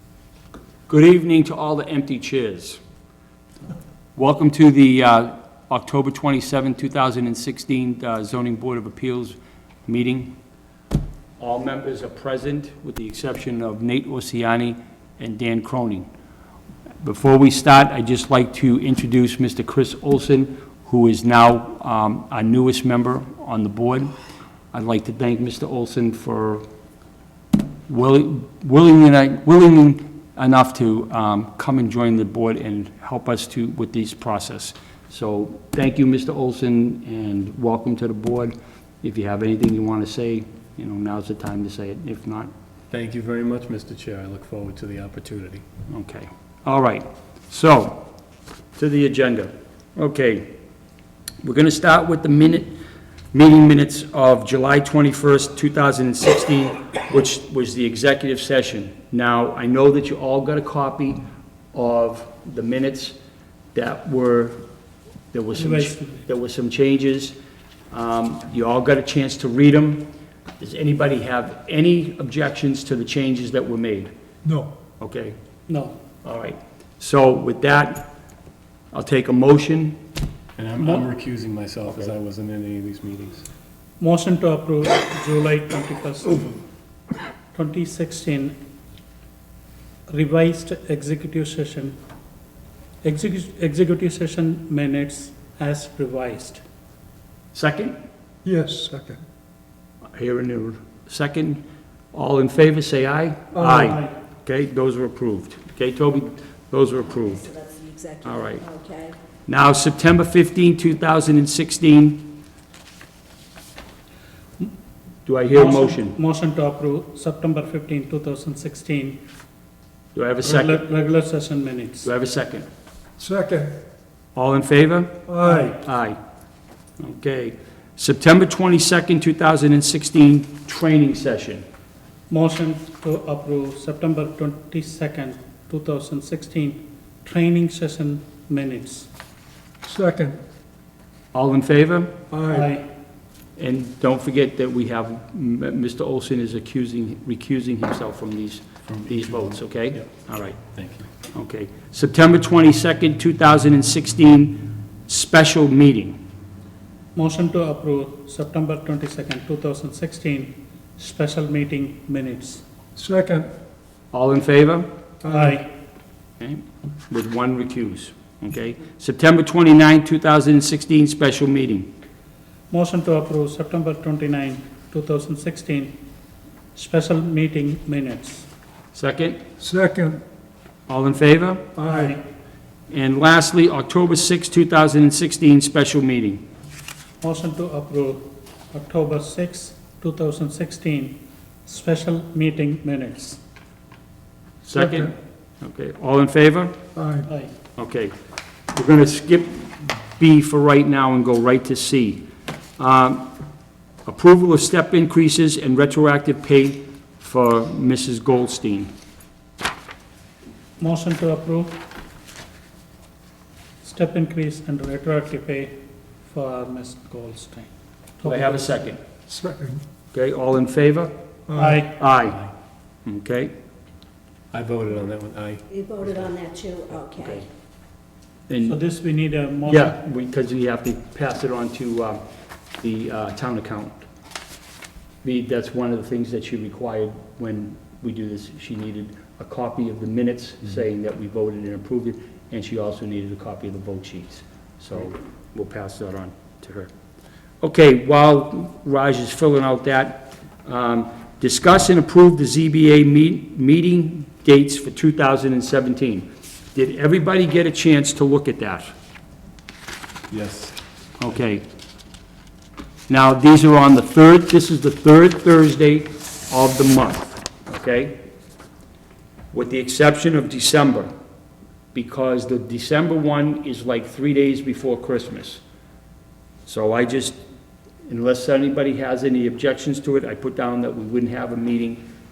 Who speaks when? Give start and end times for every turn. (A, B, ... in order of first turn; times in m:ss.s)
0:00.9-0:02.8 A
0:04.2-0:10.4 A
0:11.4-0:16.1 A
0:17.0-0:24.1 A
0:24.7-0:26.6 A
0:27.9-0:42.5 A
0:42.9-0:45.6 B
0:45.9-0:48.1 A
0:48.8-0:50.6 A
0:51.4-0:52.8 A
0:53.3-1:01.2 A
1:01.7-1:03.2 A
1:03.7-1:04.6 A
1:05.3-1:07.4 A
1:05.5-1:06.3 C
1:07.9-1:14.1 A
1:14.5-1:14.7 D
1:15.0-1:15.4 A
1:15.7-1:16.0 C
1:16.1-1:18.2 A
1:18.9-1:20.0 A
1:20.6-1:23.4 B
1:20.8-1:21.1 C
1:21.8-1:22.1 A
1:24.0-1:26.6 C
1:27.5-1:28.6 C
1:30.1-1:32.0 C
1:33.0-1:36.6 C
1:37.5-1:38.0 A
1:38.4-1:39.2 D
1:40.1-1:41.6 A
1:42.1-1:47.5 A
1:43.7-1:44.2 C
1:47.4-1:49.2 E
1:48.2-1:48.6 A
1:49.5-1:52.4 A
1:55.2-1:56.2 A
1:55.5-1:59.2 C
2:00.1-2:00.9 A
2:00.4-2:02.1 C
2:02.0-2:02.7 A
2:03.2-2:03.8 D
2:04.3-2:06.2 A
2:05.3-2:05.7 D
2:05.4-2:05.8 C
2:07.0-2:11.6 A
2:12.3-2:19.1 C
2:19.8-2:20.4 D
2:21.3-2:22.2 A
2:22.3-2:22.7 D
2:22.5-2:22.9 C
2:23.6-2:36.2 A
2:28.9-2:30.0 B
2:30.7-2:31.0 B
2:37.1-2:42.6 C
2:43.0-2:43.5 D
2:44.1-2:44.9 A
2:45.2-2:45.5 D
2:45.2-2:45.7 C
2:46.4-2:51.9 A
2:52.7-2:56.0 C
2:56.7-2:58.5 C
2:58.9-2:59.4 A
2:59.6-3:00.2 D
3:00.9-3:01.7 A
3:01.8-3:02.1 D
3:01.8-3:02.2 C
3:02.9-3:06.4 A
3:07.2-3:13.4 C
3:14.6-3:16.8 A
3:14.8-3:15.1 D
3:17.0-3:17.3 D
3:17.2-3:17.5 C
3:17.7-3:18.1 A
3:18.7-3:22.3 A
3:22.8-3:23.3 A
3:24.0-3:28.9 A
3:30.8-3:31.8 C
3:33.8-3:37.7 C
3:38.2-3:38.8 C
3:38.2-3:39.0 A
3:39.3-3:39.8 D
3:40.1-3:41.1 A
3:41.5-3:41.8 D
3:41.5-3:42.0 C
3:41.8-3:42.5 A
3:43.0-3:43.5 A
3:44.5-3:46.3 B
3:45.7-3:47.3 E
3:47.0-3:47.4 A
3:48.5-3:48.8 A
3:48.6-3:49.9 C
3:49.6-3:52.2 A
3:52.8-3:54.0 A
3:55.2-4:06.9 A
4:07.6-4:18.9 A
4:20.3-4:20.8 B
4:21.2-4:21.6 A
4:23.1-4:28.2 A
4:29.5-4:31.1 A
4:31.9-4:35.6 A
4:36.6-4:37.4 A
4:38.1-4:42.0 A